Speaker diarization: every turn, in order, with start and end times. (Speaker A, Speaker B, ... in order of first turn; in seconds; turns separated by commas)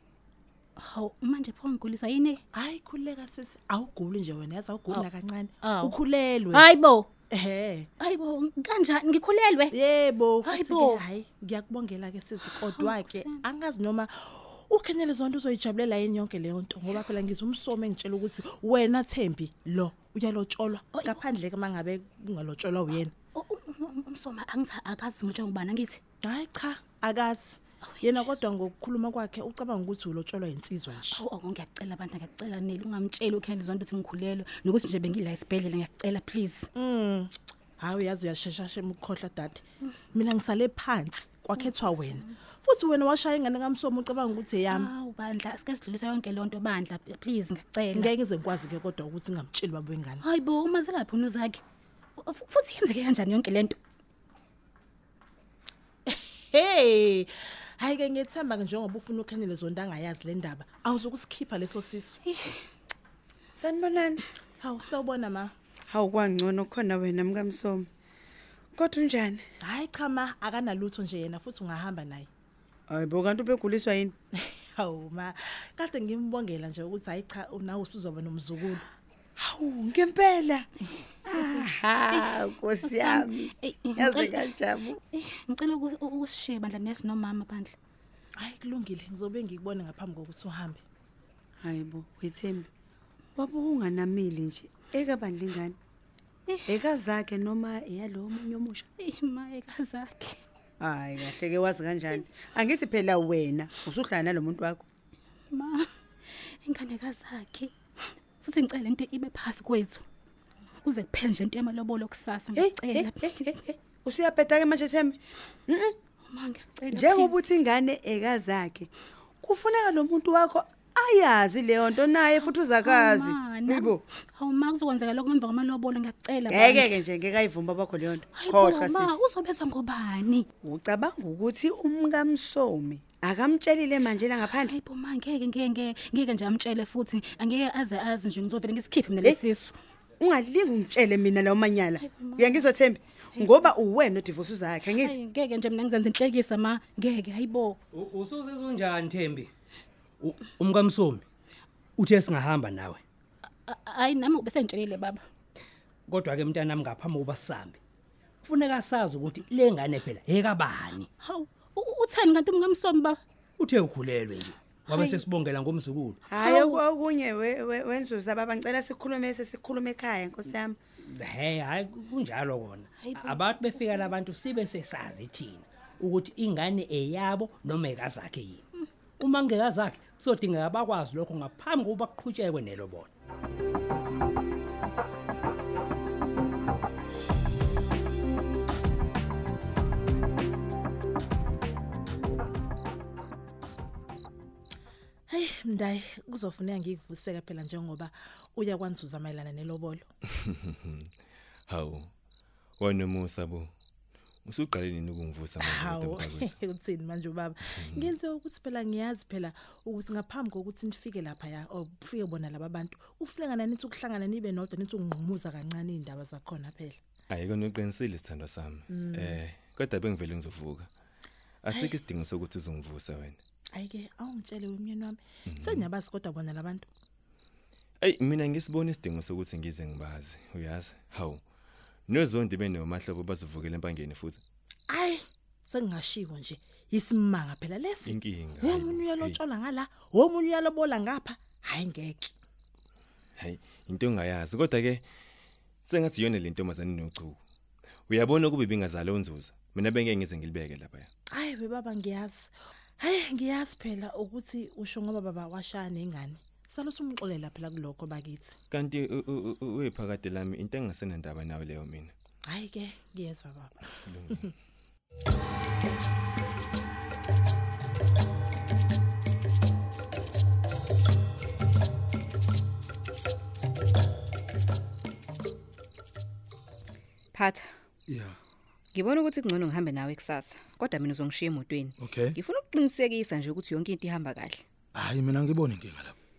Speaker A: 0.8-2.4, Speaker B: 2.5-6.7, Speaker A: 5.6-6.0, Speaker A: 6.5-7.1, Speaker B: 7.3-7.9, Speaker A: 8.0-9.8, Speaker B: 9.7-23.1, Speaker A: 10.4-11.0, Speaker A: 12.5-13.4, Speaker A: 23.4-26.0, Speaker B: 26.2-31.2, Speaker A: 27.9-28.3, Speaker A: 31.1-36.7, Speaker B: 36.7-39.6, Speaker B: 40.1-44.9, Speaker A: 41.6-42.2, Speaker A: 44.7-48.1, Speaker B: 47.9-50.2, Speaker A: 50.2-51.6, Speaker A: 52.2-53.8, Speaker B: 56.1-62.2, Speaker C: 63.5-64.3, Speaker B: 64.6-65.5, Speaker C: 65.9-67.9, Speaker C: 68.8-69.4, Speaker B: 69.6-72.3, Speaker C: 72.9-74.2, Speaker B: 74.3-78.8, Speaker C: 79.4-80.7, Speaker C: 81.2-85.0, Speaker A: 82.1-84.5, Speaker A: 85.1-87.8, Speaker B: 88.4-90.8, Speaker C: 91.6-92.7, Speaker C: 93.4-95.8, Speaker C: 96.7-98.9, Speaker A: 99.0-100.4, Speaker C: 100.8-104.9, Speaker A: 105.5-107.7, Speaker A: 108.4-110.0, Speaker A: 110.8-113.6, Speaker C: 112.5-116.0, Speaker A: 116.3-117.4, Speaker C: 116.9-118.9, Speaker C: 119.4-124.0, Speaker A: 122.8-127.0, Speaker C: 126.5-129.2, Speaker A: 128.3-130.5, Speaker C: 130.6-134.8, Speaker A: 134.5-139.7, Speaker C: 140.2-145.2, Speaker A: 142.0-142.6, Speaker A: 144.9-147.8, Speaker D: 147.9-149.5, Speaker D: 150.2-151.2, Speaker D: 152.0-153.0, Speaker A: 153.7-155.2, Speaker D: 156.1-157.8, Speaker D: 158.4-161.1, Speaker A: 161.2-163.2, Speaker D: 163.6-166.2, Speaker A: 164.9-165.2, Speaker C: 166.3-170.8, Speaker A: 166.4-166.8, Speaker D: 171.1-178.6, Speaker A: 173.0-174.1, Speaker D: 179.2-183.1, Speaker B: 195.3-200.1, Speaker E: 200.4-201.1, Speaker E: 201.7-202.1, Speaker E: 202.8-203.7, Speaker E: 204.4-206.6, Speaker B: 205.6-217.0, Speaker E: 207.8-208.1, Speaker E: 217.3-220.9, Speaker B: 219.0-219.3, Speaker E: 221.6-223.4, Speaker B: 223.7-226.9, Speaker E: 225.5-225.9, Speaker E: 228.0-231.4, Speaker E: 232.1-234.4, Speaker B: 234.9-242.3, Speaker E: 238.0-239.4, Speaker E: 243.4-245.0, Speaker E: 245.9-247.4, Speaker E: 248.1-251.1, Speaker B: 251.3-258.6, Speaker E: 258.7-262.1, Speaker B: 262.5-263.7, Speaker E: 264.1-264.4, Speaker F: 277.3-277.7, Speaker G: 278.1-278.4, Speaker F: 278.9-284.6, Speaker G: 282.0-282.4, Speaker G: 284.9-286.2